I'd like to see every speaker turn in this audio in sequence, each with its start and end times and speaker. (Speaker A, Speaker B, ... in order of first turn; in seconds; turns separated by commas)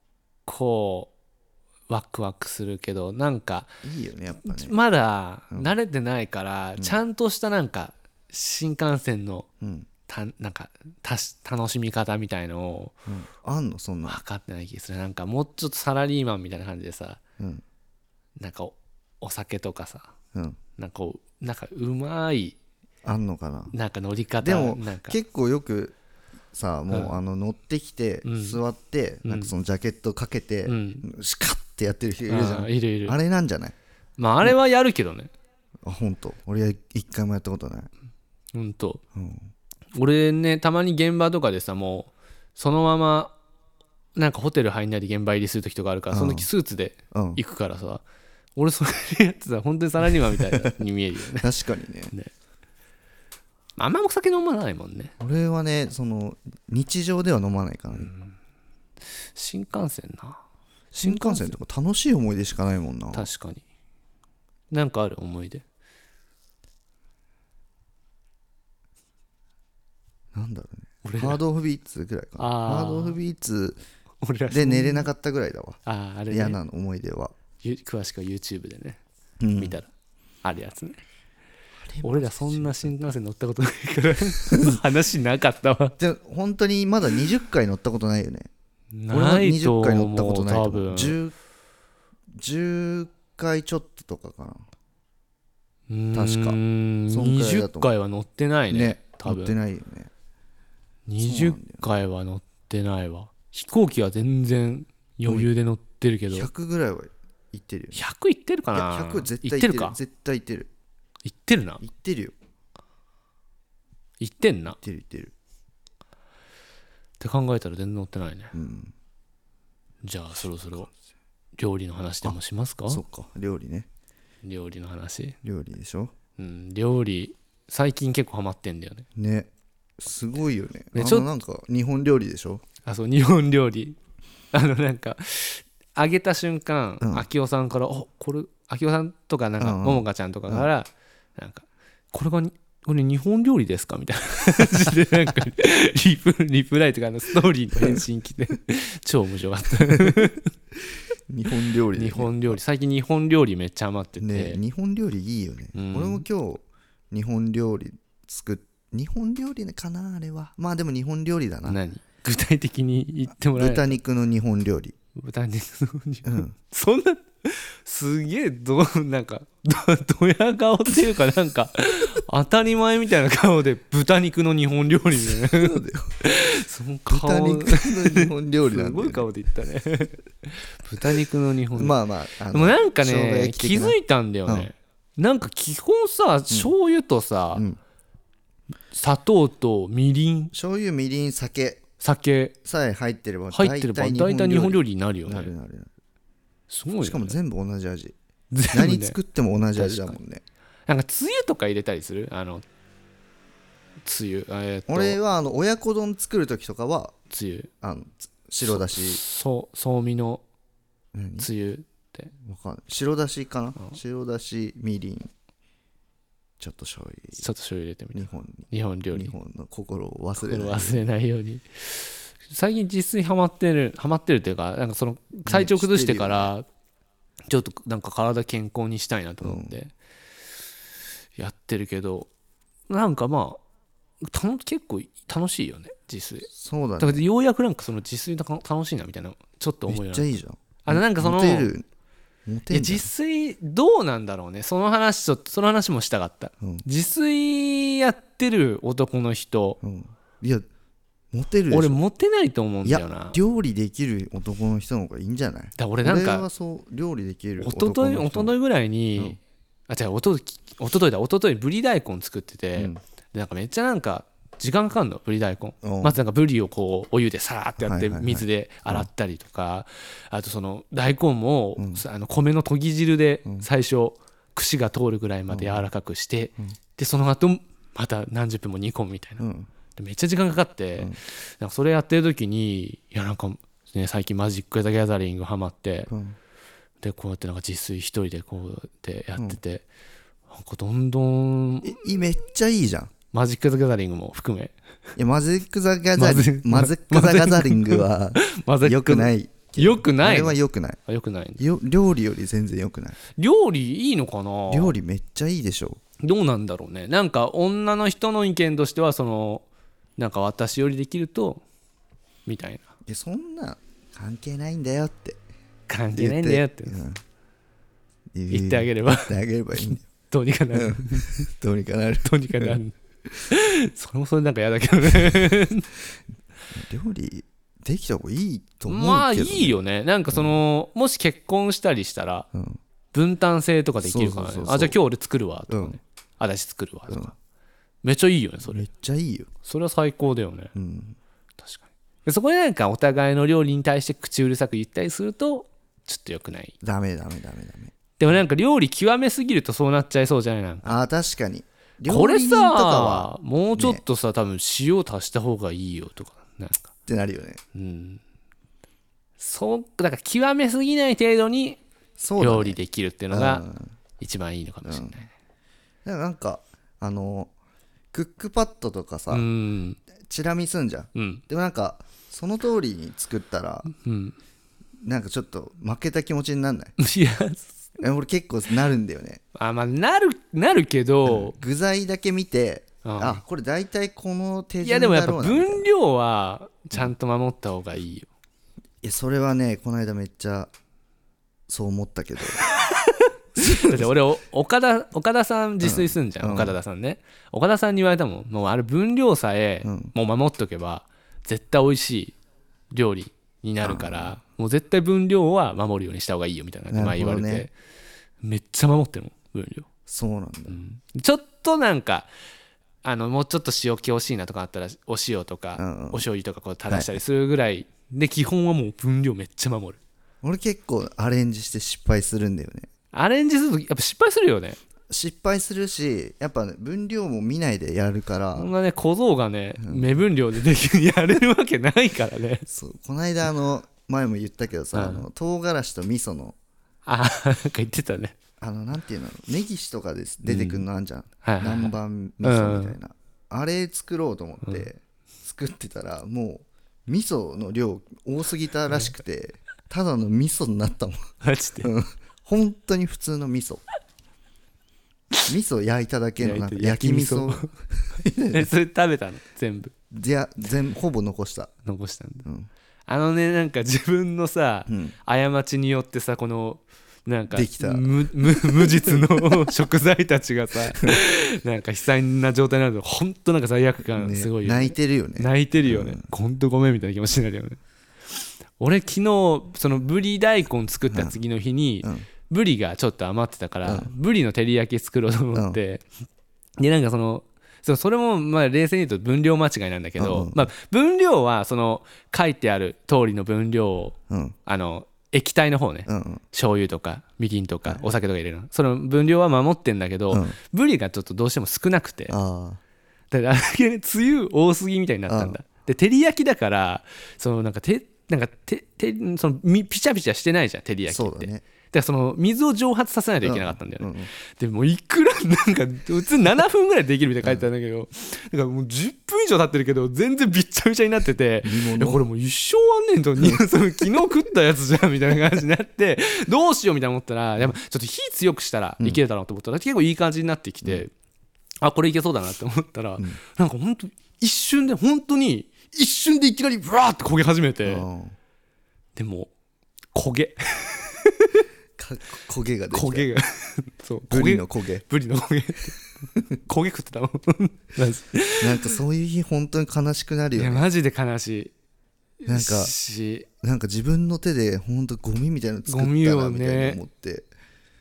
Speaker A: 0.5-1.1, Speaker A: 1.9-3.7, Speaker B: 3.8-4.8, Speaker A: 4.3-9.5, Speaker B: 9.6-9.9, Speaker A: 10.1-12.9, Speaker B: 13.1-14.2, Speaker A: 14.1-17.2, Speaker A: 18.4-20.1, Speaker A: 20.8-22.6, Speaker B: 23.0-23.7, Speaker A: 23.7-25.2, Speaker B: 24.4-26.0, Speaker B: 26.5-33.8, Speaker A: 26.9-27.2, Speaker A: 28.2-28.6, Speaker A: 29.2-29.5, Speaker A: 30.7-31.1, Speaker A: 32.3-33.2, Speaker A: 34.2-35.3, Speaker B: 35.8-37.9, Speaker A: 38.5-39.0, Speaker B: 39.1-39.5, Speaker A: 40.0-43.4, Speaker A: 44.2-48.0, Speaker B: 46.1-46.5, Speaker B: 47.1-47.4, Speaker A: 48.6-51.5, Speaker B: 51.4-52.1, Speaker A: 53.8-55.1, Speaker B: 55.2-58.1, Speaker A: 57.9-58.4, Speaker A: 59.3-60.4, Speaker B: 60.9-63.3, Speaker A: 61.0-61.6, Speaker A: 63.1-63.6, Speaker A: 64.7-65.6, Speaker B: 70.3-73.8, Speaker A: 71.0-71.4, Speaker A: 72.4-73.2, Speaker A: 74.2-75.1, Speaker B: 74.5-75.8, Speaker A: 75.9-76.6, Speaker B: 76.3-77.3, Speaker A: 77.6-79.0, Speaker B: 79.4-79.8, Speaker A: 79.6-79.9, Speaker A: 80.4-81.0, Speaker B: 81.9-83.1, Speaker A: 82.0-86.0, Speaker B: 84.5-84.8, Speaker B: 86.0-88.5, Speaker A: 88.9-91.2, Speaker B: 89.1-91.3, Speaker B: 92.4-94.7, Speaker A: 95.9-99.6, Speaker B: 96.1-96.6, Speaker B: 97.1-97.9, Speaker B: 98.7-100.1, Speaker A: 101.1-106.5, Speaker B: 101.2-101.9, Speaker B: 106.3-108.0, Speaker A: 107.9-110.0, Speaker B: 108.7-110.7, Speaker A: 111.2-111.8, Speaker B: 111.8-112.3, Speaker A: 114.2-114.8, Speaker B: 114.8-115.3, Speaker A: 117.2-118.5, Speaker B: 118.5-118.9, Speaker A: 120.0-120.9, Speaker A: 121.6-123.0, Speaker B: 122.9-123.9, Speaker A: 124.4-125.4, Speaker B: 125.4-126.1, Speaker A: 126.4-129.1, Speaker B: 129.2-132.6, Speaker A: 130.9-131.3, Speaker A: 132.8-134.0, Speaker A: 134.5-150.5, Speaker B: 139.6-140.7, Speaker B: 151.3-152.6, Speaker A: 151.9-154.6, Speaker B: 154.2-161.8, Speaker A: 155.8-156.3, Speaker A: 161.7-164.0, Speaker B: 163.5-164.9, Speaker A: 165.2-182.0, Speaker B: 166.2-166.5, Speaker B: 175.2-176.1, Speaker B: 177.1-179.3, Speaker B: 181.7-184.7, Speaker A: 182.5-187.6, Speaker A: 188.9-190.5, Speaker B: 190.5-191.8, Speaker A: 192.0-192.6, Speaker B: 192.7-195.9, Speaker A: 193.5-195.5, Speaker A: 196.7-197.4, Speaker B: 197.0-198.2, Speaker A: 198.5-199.2, Speaker B: 198.7-200.4, Speaker A: 199.8-200.2, Speaker A: 200.9-202.6, Speaker A: 204.1-205.2, Speaker B: 204.9-207.2, Speaker A: 207.3-207.7, Speaker B: 207.8-209.2, Speaker A: 208.7-210.4, Speaker B: 211.1-211.5, Speaker A: 211.4-212.3, Speaker B: 212.4-215.3, Speaker B: 216.6-217.4, Speaker A: 217.4-219.3, Speaker B: 218.2-221.0, Speaker A: 220.4-226.7, Speaker B: 225.5-226.5, Speaker A: 227.5-229.9, Speaker B: 229.4-229.8, Speaker A: 231.4-232.3, Speaker A: 232.9-233.6, Speaker A: 234.2-236.5, Speaker B: 236.5-237.2, Speaker A: 237.0-241.7, Speaker B: 239.9-241.9, Speaker B: 242.5-243.1, Speaker A: 242.7-249.8, Speaker B: 249.8-250.7, Speaker B: 251.3-252.0, Speaker A: 251.7-253.4, Speaker B: 252.8-258.6, Speaker A: 255.8-256.5, Speaker A: 257.6-279.4, Speaker B: 265.8-266.2, Speaker B: 267.8-269.1, Speaker B: 271.8-272.0, Speaker B: 275.5-275.9, Speaker B: 279.4-279.7, Speaker A: 279.9-286.1, Speaker B: 286.1-286.4, Speaker A: 287.0-289.9, Speaker A: 290.5-292.0, Speaker B: 291.8-293.1, Speaker A: 293.3-294.7, Speaker B: 295.2-301.0, Speaker A: 296.2-301.6, Speaker B: 301.6-303.2, Speaker A: 303.4-305.0, Speaker B: 304.7-306.0, Speaker A: 306.2-309.6, Speaker A: 310.2-311.6, Speaker A: 312.5-312.9, Speaker B: 313.1-315.4, Speaker A: 315.9-317.0, Speaker B: 316.1-317.2, Speaker B: 318.3-320.1, Speaker A: 318.5-321.5, Speaker B: 320.7-322.8, Speaker A: 322.2-322.9, Speaker A: 323.5-325.9, Speaker B: 326.7-329.8, Speaker A: 328.9-332.5, Speaker B: 330.3-330.6, Speaker B: 332.5-332.8, Speaker A: 333.1-337.4, Speaker B: 334.0-335.0, Speaker B: 335.7-336.0, Speaker A: 338.0-338.8, Speaker B: 338.7-339.5, Speaker A: 339.6-340.7, Speaker B: 340.8-341.2, Speaker A: 341.6-346.8, Speaker B: 346.8-348.4, Speaker A: 348.2-351.0, Speaker B: 350.8-354.0, Speaker A: 352.1-356.9, Speaker B: 357.1-357.6, Speaker A: 357.7-358.2, Speaker A: 359.4-361.8, Speaker B: 362.2-362.8, Speaker A: 362.4-363.6, Speaker B: 363.3-363.9, Speaker A: 364.2-365.3, Speaker B: 364.8-365.2, Speaker B: 366.1-367.5, Speaker B: 368.1-369.5, Speaker A: 369.3-370.0, Speaker B: 370.3-373.9, Speaker A: 371.1-371.4, Speaker A: 373.9-374.4, Speaker B: 375.0-377.0, Speaker A: 377.0-377.9, Speaker B: 378.0-379.4, Speaker A: 379.6-381.6, Speaker B: 381.2-385.9, Speaker A: 383.0-383.4, Speaker A: 384.8-388.3, Speaker B: 389.0-390.7, Speaker B: 391.7-392.6, Speaker A: 392.6-402.4, Speaker B: 393.6-394.1, Speaker B: 395.8-396.8, Speaker B: 399.8-400.1, Speaker A: 402.9-407.7, Speaker B: 403.8-404.4, Speaker B: 406.9-407.7, Speaker A: 408.4-409.9, Speaker B: 410.1-410.8, Speaker A: 410.7-412.3, Speaker A: 413.0-420.0, Speaker B: 415.8-416.2, Speaker B: 416.9-417.2, Speaker B: 420.4-422.9, Speaker A: 423.1-424.8, Speaker B: 425.1-428.7, Speaker A: 428.6-432.7, Speaker B: 429.8-430.2, Speaker B: 432.7-436.6, Speaker A: 434.9-435.3, Speaker A: 437.1-438.4, Speaker B: 438.6-451.3, Speaker A: 440.4-440.8, Speaker A: 441.4-443.0, Speaker A: 448.9-449.1, Speaker A: 451.4-451.9, Speaker B: 451.8-453.8, Speaker B: 455.5-458.7, Speaker A: 456.4-457.7, Speaker A: 458.5-459.9, Speaker B: 460.1-461.7, Speaker A: 461.9-462.5, Speaker A: 463.1-477.8, Speaker B: 464.9-465.1, Speaker B: 467.5-469.7, Speaker B: 474.0-476.3, Speaker A: 478.8-486.1, Speaker B: 481.1-481.4, Speaker B: 483.9-484.1, Speaker A: 486.8-502.4, Speaker B: 490.2-490.7, Speaker B: 494.3-494.6, Speaker B: 496.1-496.4, Speaker B: 500.3-500.6, Speaker B: 502.3-502.8, Speaker A: 503.3-531.1, Speaker B: 505.3-505.6, Speaker B: 511.1-511.6, Speaker B: 513.4-514.3, Speaker B: 521.6-522.2, Speaker B: 523.4-523.6, Speaker A: 531.8-538.1, Speaker B: 537.9-538.4, Speaker A: 539.2-539.5, Speaker A: 540.1-541.6, Speaker B: 542.0-543.3, Speaker A: 542.9-546.0, Speaker B: 544.3-545.0, Speaker A: 546.6-549.0, Speaker B: 548.6-550.9, Speaker A: 550.6-551.7, Speaker A: 552.4-553.5, Speaker B: 552.5-552.9, Speaker B: 553.6-557.5, Speaker A: 555.9-557.0